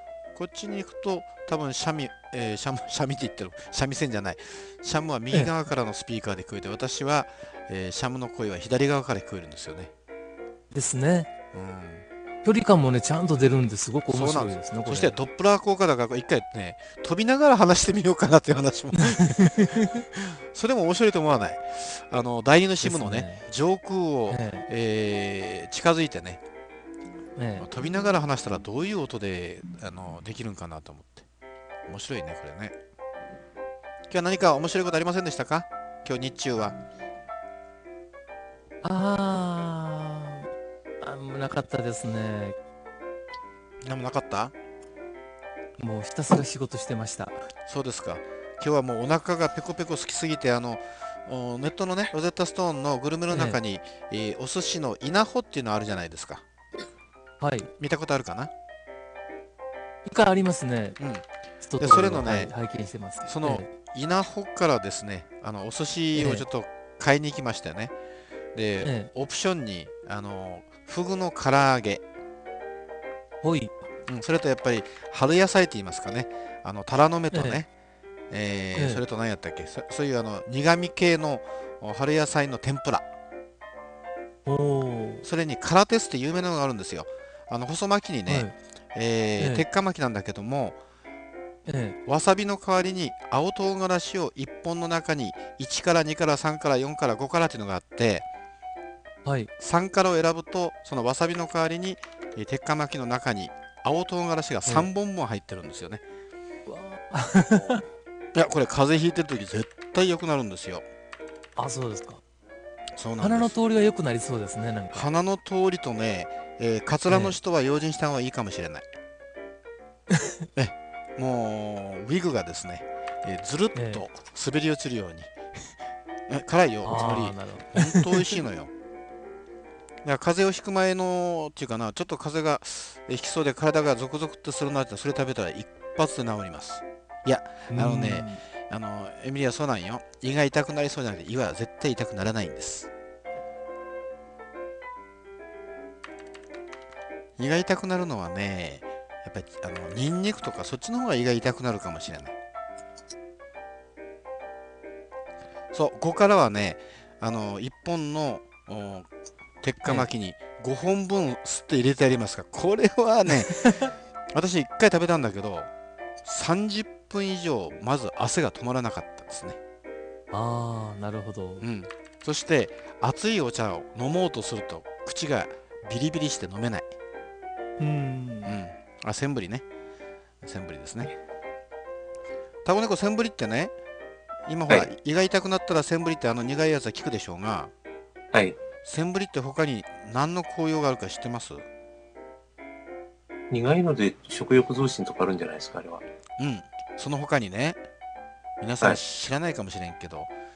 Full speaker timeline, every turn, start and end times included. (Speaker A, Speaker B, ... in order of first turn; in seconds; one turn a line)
Speaker A: 0.3-9.9
Speaker B: 10.7-11.3
Speaker A: 11.5-12.0
Speaker B: 12.4-15.2
Speaker A: 14.1-26.4
Speaker B: 18.9-20.0
Speaker B: 22.8-23.4
Speaker B: 24.3-24.6
Speaker B: 27.3-27.7
Speaker A: 27.6-31.2
Speaker A: 31.9-32.8
Speaker A: 34.1-36.8
Speaker B: 38.8-40.5
Speaker B: 41.0-42.6
Speaker A: 43.8-44.5
Speaker B: 45.8-47.4
Speaker A: 47.7-56.4
Speaker B: 53.3-53.6
Speaker B: 57.4-57.7
Speaker A: 57.8-58.5
Speaker B: 60.0-61.0
Speaker A: 61.0-62.5
Speaker B: 61.6-63.7
Speaker A: 63.2-67.9
Speaker B: 66.1-66.5
Speaker A: 68.5-72.0
Speaker B: 68.8-69.1
Speaker B: 73.4-73.7
Speaker A: 74.1-77.7
Speaker B: 77.3-77.6
Speaker A: 78.3-83.1
Speaker B: 78.7-79.0
Speaker B: 84.4-85.2
Speaker A: 85.2-90.8
Speaker B: 88.3-88.5
Speaker B: 89.4-89.6
Speaker B: 91.7-92.0
Speaker A: 92.0-98.2
Speaker B: 99.2-99.5
Speaker A: 99.6-106.0
Speaker B: 106.7-107.8
Speaker A: 108.3-110.8
Speaker B: 111.5-112.2
Speaker A: 113.0-113.5
Speaker B: 113.2-115.1
Speaker A: 114.9-118.9
Speaker B: 117.1-117.4
Speaker A: 120.5-125.3
Speaker B: 123.7-124.0
Speaker A: 126.3-128.7
Speaker B: 126.8-128.1
Speaker A: 130.0-142.9
Speaker B: 137.7-138.4
Speaker A: 147.4-152.3
Speaker A: 155.7-159.1
Speaker A: 159.6-163.7
Speaker B: 159.8-160.1
Speaker A: 164.3-165.7
Speaker A: 166.2-169.6
Speaker B: 170.3-171.7
Speaker A: 171.6-176.9
Speaker B: 177.8-178.6
Speaker A: 178.4-179.7
Speaker A: 180.4-181.1
Speaker A: 182.6-183.7
Speaker A: 184.5-187.7
Speaker C: 188.3-188.6
Speaker A: 188.8-191.6
Speaker C: 193.5-196.0
Speaker A: 196.4-197.8
Speaker A: 198.6-200.3